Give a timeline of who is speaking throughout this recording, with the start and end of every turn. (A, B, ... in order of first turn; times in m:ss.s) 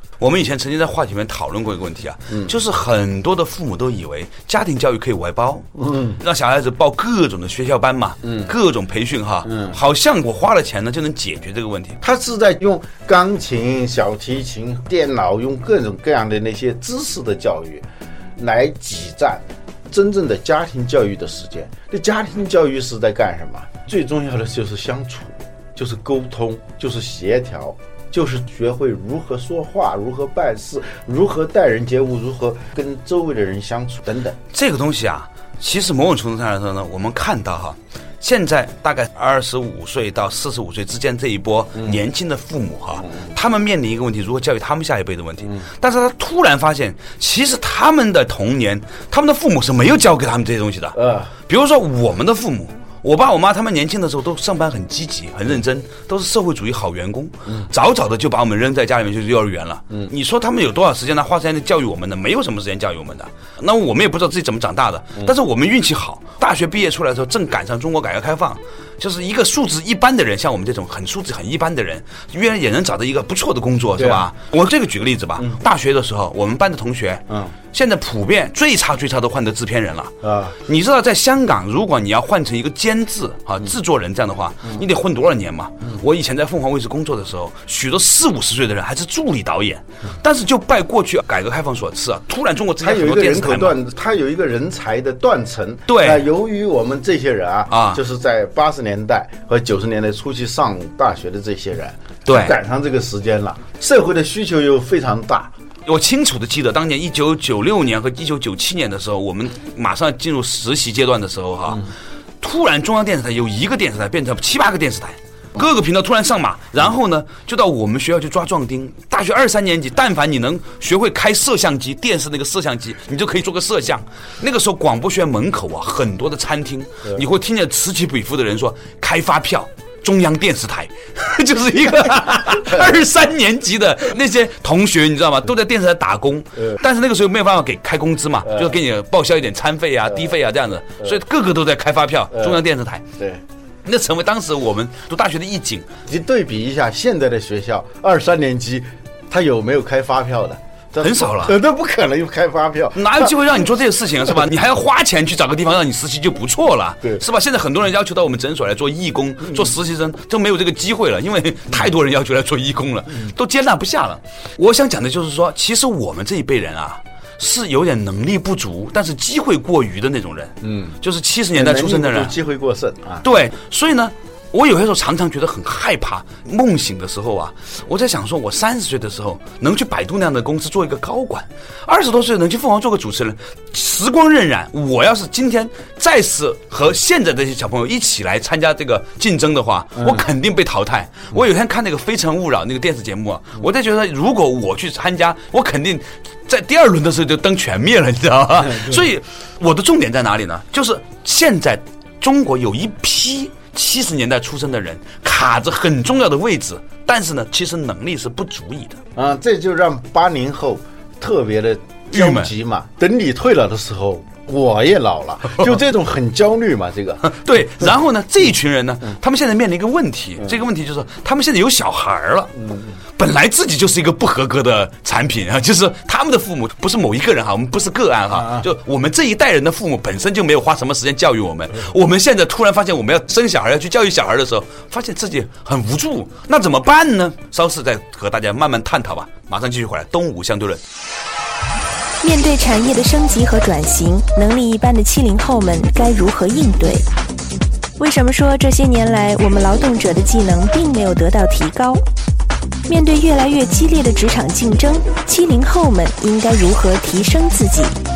0:00.2-0:05.7 A
0:02.3-0:02.5 B
0:05.8-0:06.2 B
0:06.2-0:12.0 A
0:08.2-0:08.5 B
0:09.4-0:09.8 B
0:12.0-0:34.4 B
0:34.5-1:33.8 A
0:50.9-0:51.3 B
1:14.0-1:14.3 B
1:17.3-1:17.5 B
1:20.2-1:20.6 B
1:32.8-1:45.5 B
1:35.9-1:36.2 A
1:37.7-1:38.0 A
1:42.2-1:42.6 A
1:45.8-1:51.9 A
1:52.4-2:23.0 A
2:18.4-2:18.8 B
2:22.3-2:22.6 B
2:23.8-2:25.9 A
2:26.1-2:33.6 B
2:31.0-2:31.6 A
2:32.9-2:52.3 A
2:50.6-2:51.0 B
2:51.5-2:53.2 B
2:53.2-3:29.0 A
3:29.2-3:37.4 B
3:32.1-3:32.5 A
3:37.2-3:42.5 A
3:42.6-3:43.0 B
3:43.2-4:00.8 A
3:48.4-3:48.6 B
4:02.2-4:07.0 C
4:08.0-4:12.0 C
4:12.9-4:18.0 C